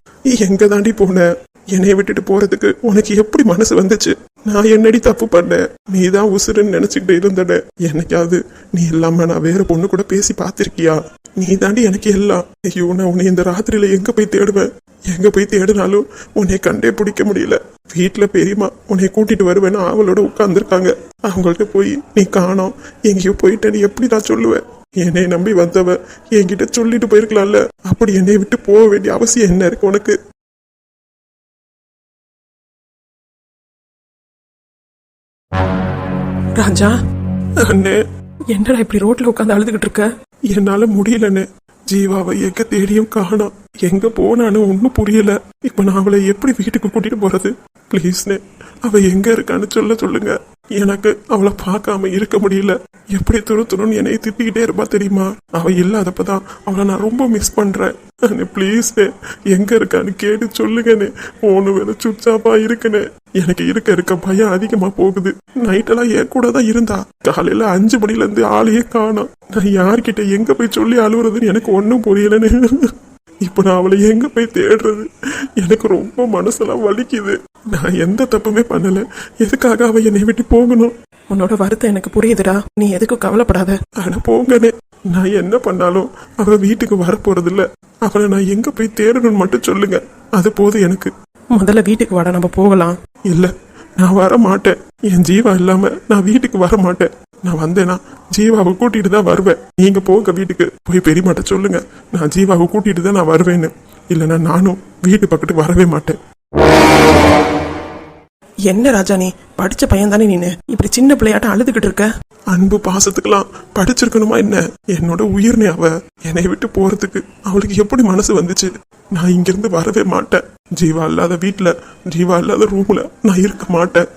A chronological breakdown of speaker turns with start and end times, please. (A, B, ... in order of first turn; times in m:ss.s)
0:00.4-0:30.2 A
0:36.6-0:36.9 B
0:37.6-0:38.0 A
0:38.6-0:40.0 B
0:40.5-1:12.9 A
1:13.4-1:15.1 A
1:15.6-1:20.9 A
1:21.3-1:23.7 B
1:23.8-1:31.1 A
1:31.6-1:32.9 B
1:33.3-1:46.2 A
1:48.7-1:52.0 B
1:52.5-2:04.0 A